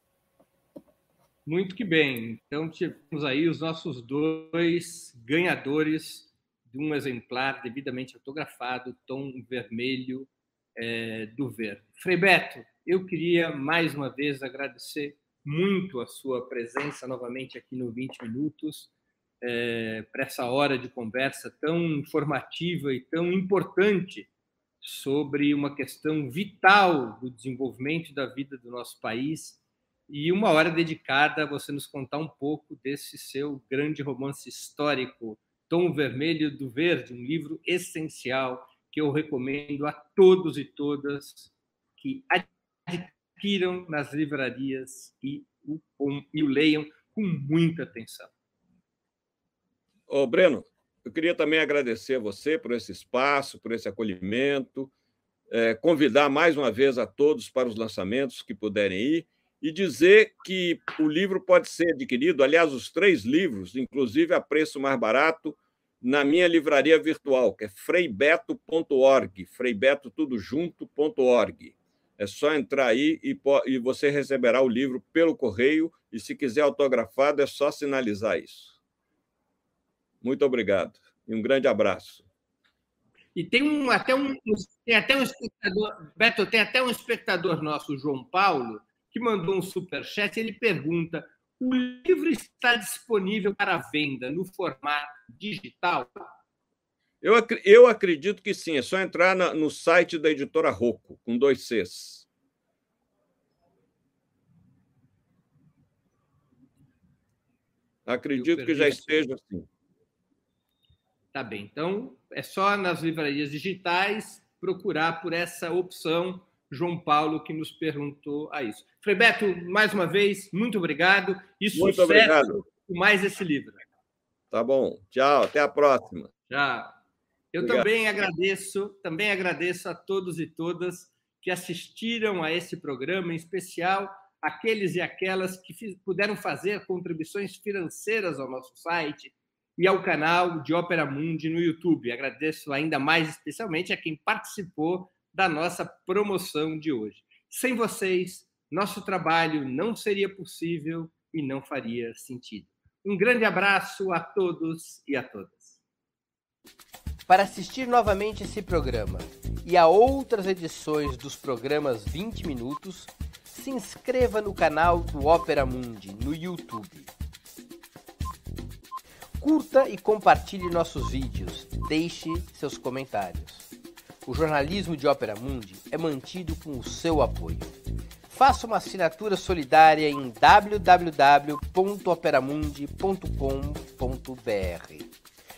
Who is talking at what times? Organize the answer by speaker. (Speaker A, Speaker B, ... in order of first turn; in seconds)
Speaker A: 1.4-18.9, 19.4-24.3, 24.8-48.3, 83.3-96.3, 108.3-109.2, 111.3-123.8, 126.5-126.9, 127.5-155.8
Speaker B: 50.1-54.9, 55.5-78.8, 80.2-82.2, 97.2-102.2, 108.0-109.7, 121.7-122.6, 124.5-126.3, 127.6-127.9
Speaker C: 157.3-167.1, 169.4-173.7, 174.2-177.8, 178.3-185.1